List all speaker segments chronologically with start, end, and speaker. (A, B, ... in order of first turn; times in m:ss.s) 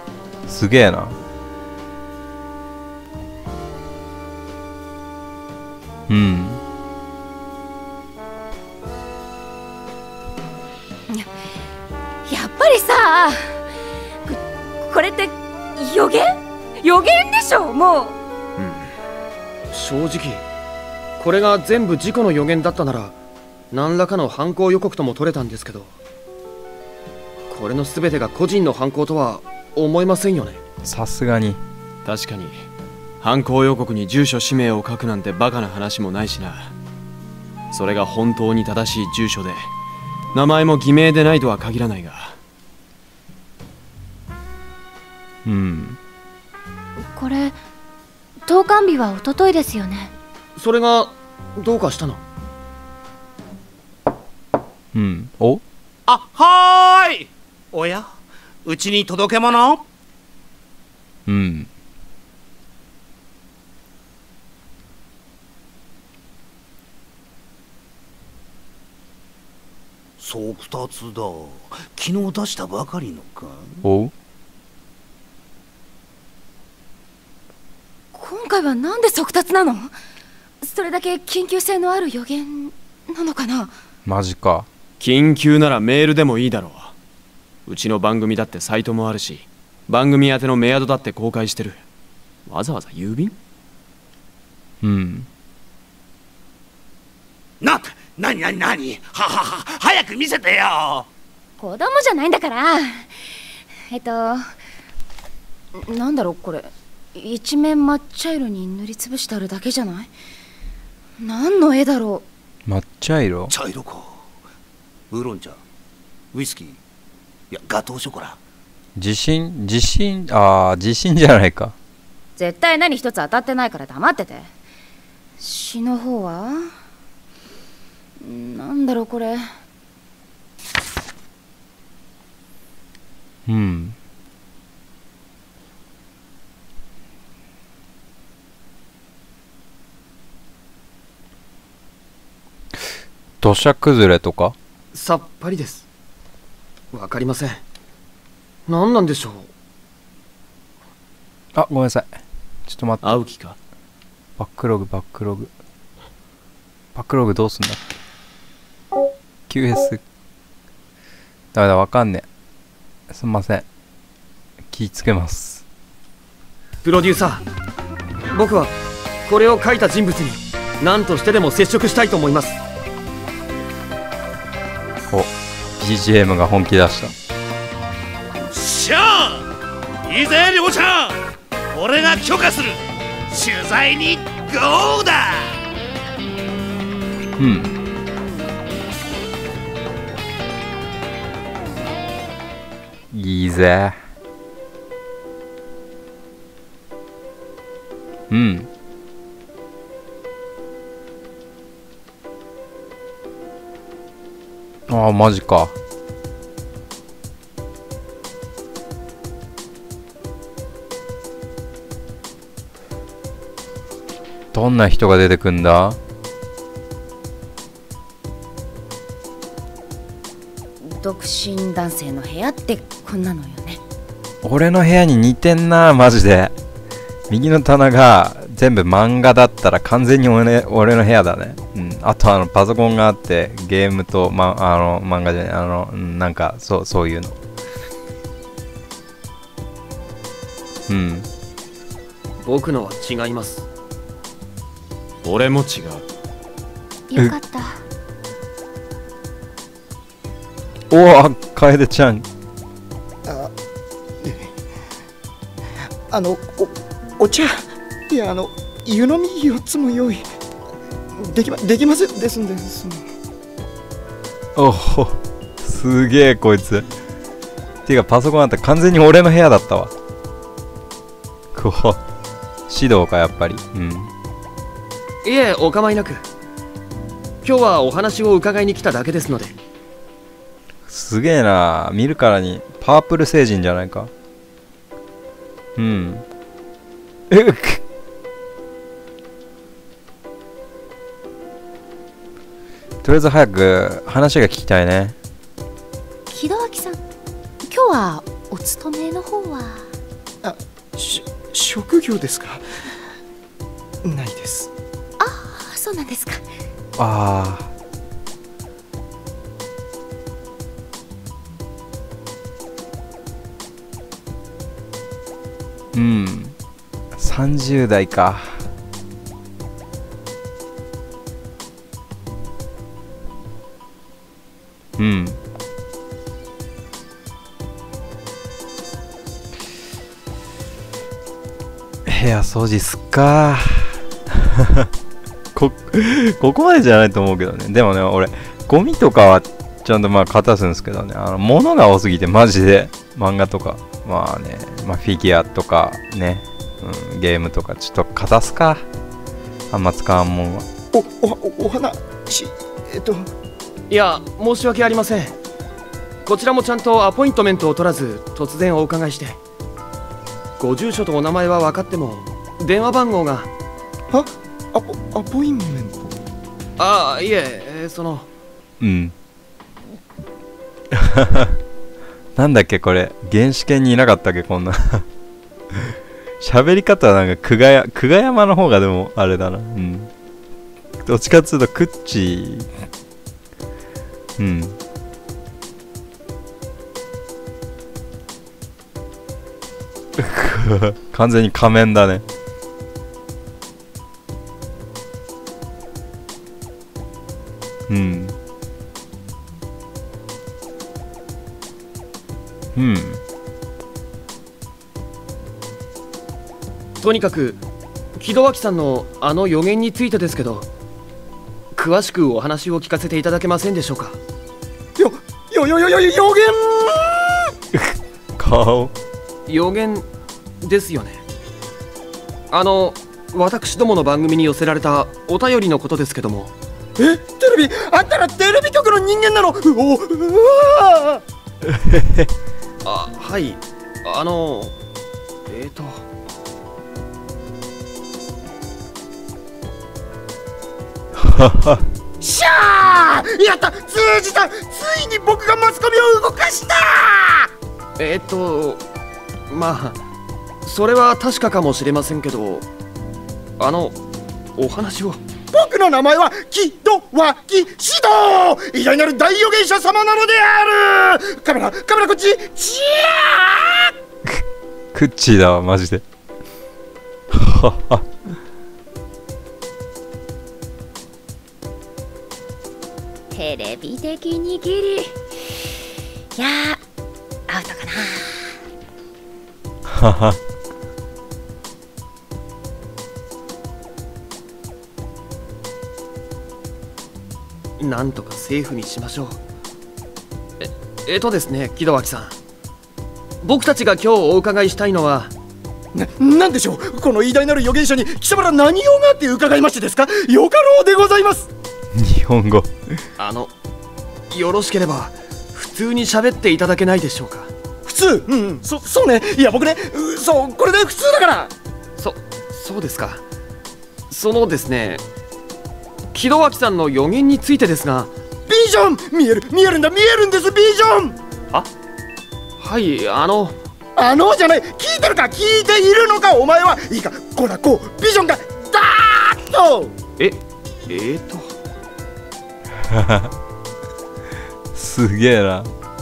0:00.5-0:01.2 A
0:06.1-0:06.6 A
0:11.1-0:11.3 B
0:12.3-0:13.6 B
0:14.2-0:18.2 B
0:18.6-0:18.9 C
0:19.7-0:20.4 D
0:21.2-0:23.2 D
0:23.7-0:25.9 D
0:27.5-0:30.6 D
0:30.8-0:31.6 A
0:32.0-0:32.7 C
0:33.2-0:36.7 C
0:37.7-0:39.7 C
0:40.3-0:42.4 C
0:45.4-0:46.0 A
0:47.1-0:47.6 E
0:48.4-0:50.1 E
0:50.6-0:52.2 D
0:54.9-0:55.6 A
0:56.1-0:58.1 F
0:58.6-0:59.8 F
1:01.3-1:01.7 A
1:10.2-1:13.8 F
1:13.8-1:14.1 A
1:18.1-1:19.9 B
1:20.6-1:23.7 B
1:24.0-1:24.7 A
1:25.0-1:26.9 C
1:27.7-1:31.8 C
1:32.5-1:33.4 C
1:34.8-1:35.3 A
1:37.6-1:41.1 F
1:41.6-1:43.2 B
1:43.9-1:44.4 B
1:45.7-1:50.1 B
1:51.2-1:52.3 B
1:52.7-1:53.5 A
1:53.5-1:54.3 F
1:55.1-1:55.6 F
1:56.3-1:56.8 F
1:57.5-1:58.4 F
1:59.0-2:01.8 A
2:02.4-2:04.5 B
2:05.4-2:06.7 B
2:08.2-2:09.4 B
2:13.5-2:14.0 A
2:23.4-2:24.6 A
2:24.9-2:25.8 D
2:26.9-2:27.6 D
2:28.7-2:29.5 D
2:31.6-2:32.1 A
2:32.7-2:33.2 A
2:33.0-2:33.6 C
2:34.4-2:35.5 A
2:37.0-2:37.8 A
2:39.5-2:40.0 A
2:41.5-2:42.3 A
2:43.1-2:43.6 A
2:44.7-2:45.6 A
2:46.8-2:47.4 D
2:48.3-2:48.8 D
2:49.3-2:52.6 D
2:55.1-2:57.1 A
2:58.5-2:59.5 F
3:00.1-3:01.2 F
3:01.7-3:02.8 F
3:03.3-3:05.6 F
3:07.4-3:07.8 A
3:13.1-3:14.0 A
3:18.3-3:18.7 A
3:24.9-3:25.7 A
3:34.5-3:36.0 A
3:40.8-3:43.8 B
3:44.4-3:46.5 A
3:47.3-3:57.4 A
4:00.9-4:01.3 A
4:02.4-4:03.7 D
4:05.2-4:06.0 C
4:07.1-4:07.8 E
4:10.9-4:12.3 A
4:13.3-4:13.5 G
4:14.2-4:14.5 G
4:16.1-4:20.3 G
4:21.2-4:23.0 G
4:24.6-4:26.9 A
4:27.9-4:29.9 A
4:31.5-4:32.0 A
4:32.7-4:34.1 A
4:35.2-4:36.2 D
4:37.4-4:39.6 D
4:40.9-4:44.1 A
4:45.8-4:46.2 A
4:47.3-4:47.8 A
4:53.0-4:55.2 A
4:56.3-4:57.0 B
4:57.7-4:59.9 B
5:00.4-5:02.6 G
5:04.0-5:04.7 G
5:05.2-5:06.4 B
5:07.0-5:07.7 A
5:15.9-5:16.6 A
5:17.2-5:18.6 A
5:25.0-5:25.4 A
5:32.1-5:34.9 A
5:35.6-5:48.8 A
5:49.7-5:50.7 A
5:50.9-5:53.3 G
5:53.9-5:55.4 D
5:56.3-5:59.4 D
6:00.6-6:03.5 D
6:04.1-6:06.2 G
6:06.8-6:08.3 D
6:08.8-6:09.2 A
6:10.9-6:11.6 A
6:12.4-6:15.0 A
6:15.7-6:20.1 A
6:21.0-6:22.7 A
6:24.4-6:24.8 A
6:30.2-6:32.2 A
6:37.9-6:38.4 A
6:42.8-6:43.2 A
6:47.0-6:47.6 D
6:48.2-6:50.7 D
6:51.7-6:54.2 D
6:55.0-6:57.5 G
6:57.7-6:58.9 A
6:59.5-7:00.1 D
7:00.6-7:01.2 D
7:02.5-7:06.5 D
7:07.0-7:11.2 G
7:11.8-7:12.3 A
7:12.8-7:14.7 D
7:15.5-7:16.0 D
7:21.2-7:21.8 A
7:22.2-7:27.5 G
7:28.0-7:28.8 D
7:29.5-7:30.0 D
7:30.6-7:32.7 D
7:33.6-7:34.0 D
7:34.6-7:35.2 D
7:35.5-7:43.9 G
7:44.9-7:46.0 A
7:47.3-7:48.0 A
7:53.3-7:55.2 B
7:56.4-7:56.8 B
7:57.5-7:58.6 B
7:59.9-8:00.4 A
8:07.8-8:09.4 D
8:10.6-8:12.4 D
8:13.4-8:15.3 D
8:15.9-8:21.5 G
8:21.9-8:23.0 A
8:23.2-8:23.5 D
8:24.3-8:27.5 D
8:27.9-8:31.5 G
8:32.0-8:33.2 D
8:34.1-8:35.0 D
8:36.1-8:38.1 D
8:38.5-8:41.2 G
8:42.6-8:43.6 D
8:44.0-8:49.9 G
8:50.2-8:51.5 D
8:52.9-8:53.3 A
8:54.7-8:55.7 A